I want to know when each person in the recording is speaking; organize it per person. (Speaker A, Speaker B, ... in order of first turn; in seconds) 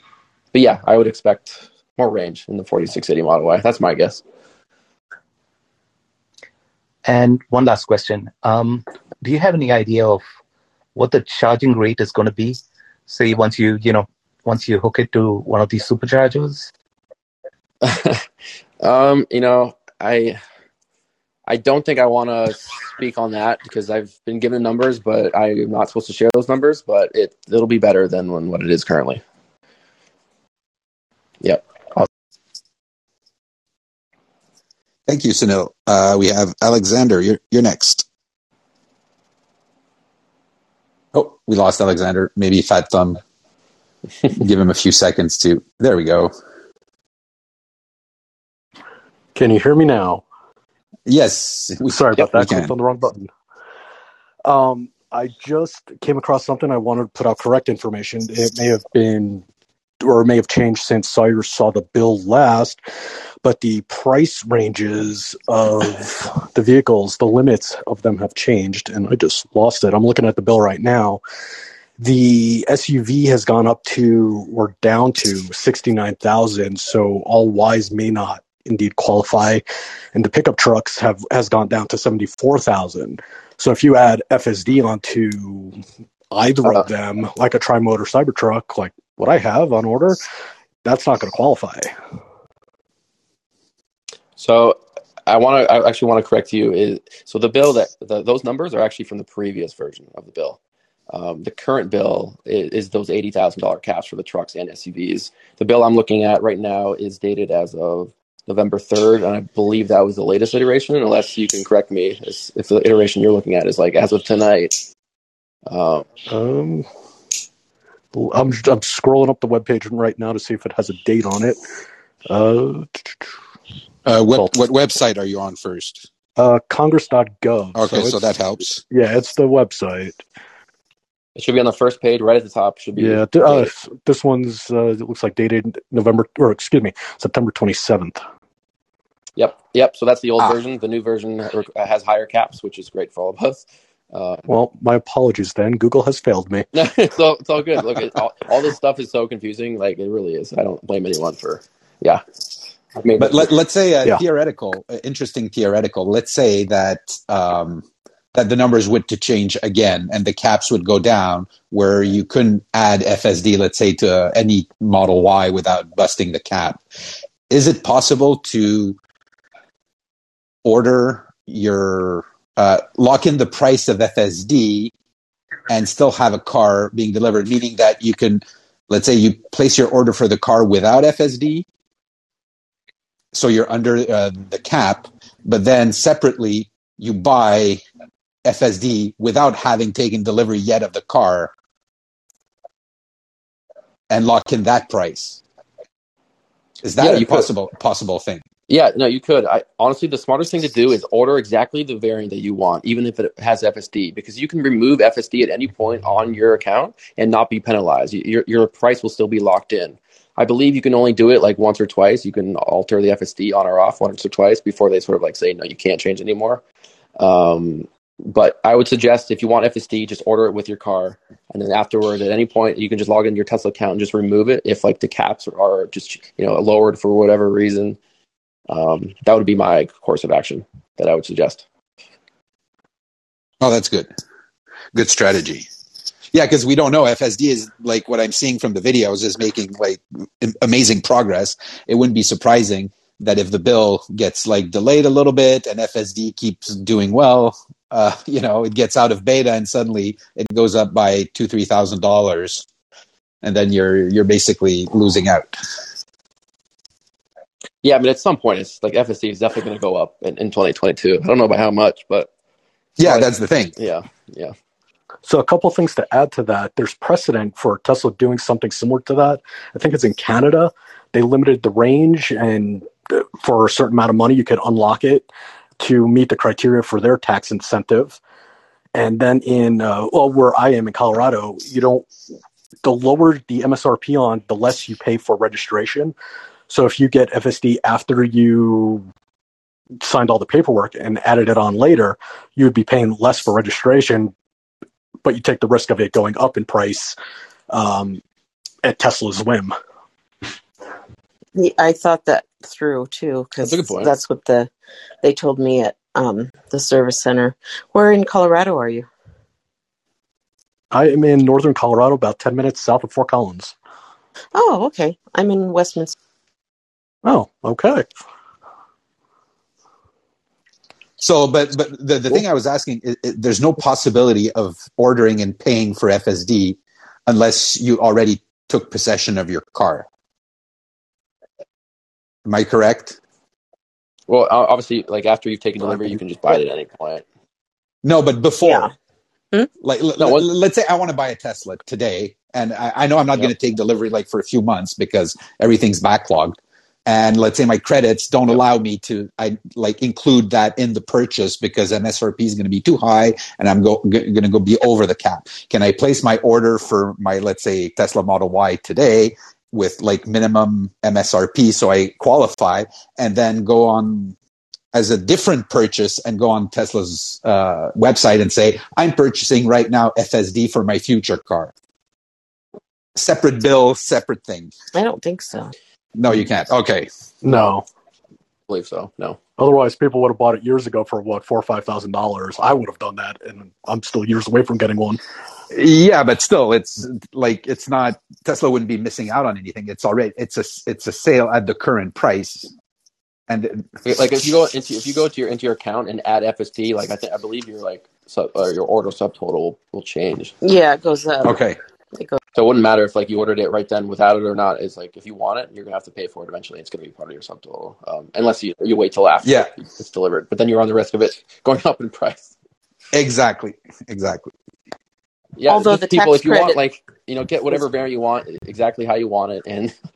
Speaker A: 0.5-4.2, 17.8-18.2, 18.8-20.4, 21.5-29.2, 86.6-86.9, 94.4-100.6, 101.1-114.8, 115.7-116.1, 131.3-133.7, 139.4-144.5, 146.7-152.2, 152.9-153.5, 197.0-197.5, 198.7-216.6, 217.2-228.0, 228.7-231.6, 257.8-262.3, 263.0-264.5, 303.6-304.1, 334.3-337.2, 340.2-340.4, 378.7-379.4, 394.0-400.6, 402.5-412.5, 415.6-419.9
Speaker B: 7.0-10.2, 10.9-16.7
Speaker C: 35.1-38.0, 41.1-43.2, 44.4-46.3, 51.0-52.7, 124.0-126.1, 127.8-128.8, 153.2-166.8, 167.5-169.0, 170.6-174.9, 175.7-181.7, 183.3-187.8, 188.4-191.5, 194.1-195.4, 196.8-198.4, 233.6-234.1, 234.9-235.7, 236.3-252.7, 253.4-255.6, 263.0-263.7, 321.2-330.1, 332.4-333.2, 338.0-338.9, 339.8-364.4, 364.9-371.7, 373.1-374.7, 376.1-377.1, 385.7-392.7, 393.5-393.9, 401.4-401.8, 409.4-409.7, 413.1-414.5
Speaker D: 49.3-50.2, 51.9-53.3, 54.4-59.4, 60.0-62.8, 63.4-71.2, 72.0-79.6, 80.1-85.8, 86.3-90.2, 90.8-91.9, 116.3-116.9, 118.1-121.6, 122.3-123.3, 126.4-130.2, 132.9-138.2, 144.5-146.6, 265.2-275.3, 275.8-278.2, 278.9-282.1, 282.8-286.1, 286.7-289.1, 290.0-294.3, 295.2-297.1, 297.7-298.2, 298.8-299.7, 310.9-313.8, 317.2-318.1, 377.4-377.8, 379.6-385.2
Speaker E: 301.5-304.7, 305.2-309.1, 314.5-316.1, 338.6-338.9, 374.9-375.7, 400.6-401.6, 402.1-402.4, 415.7-416.8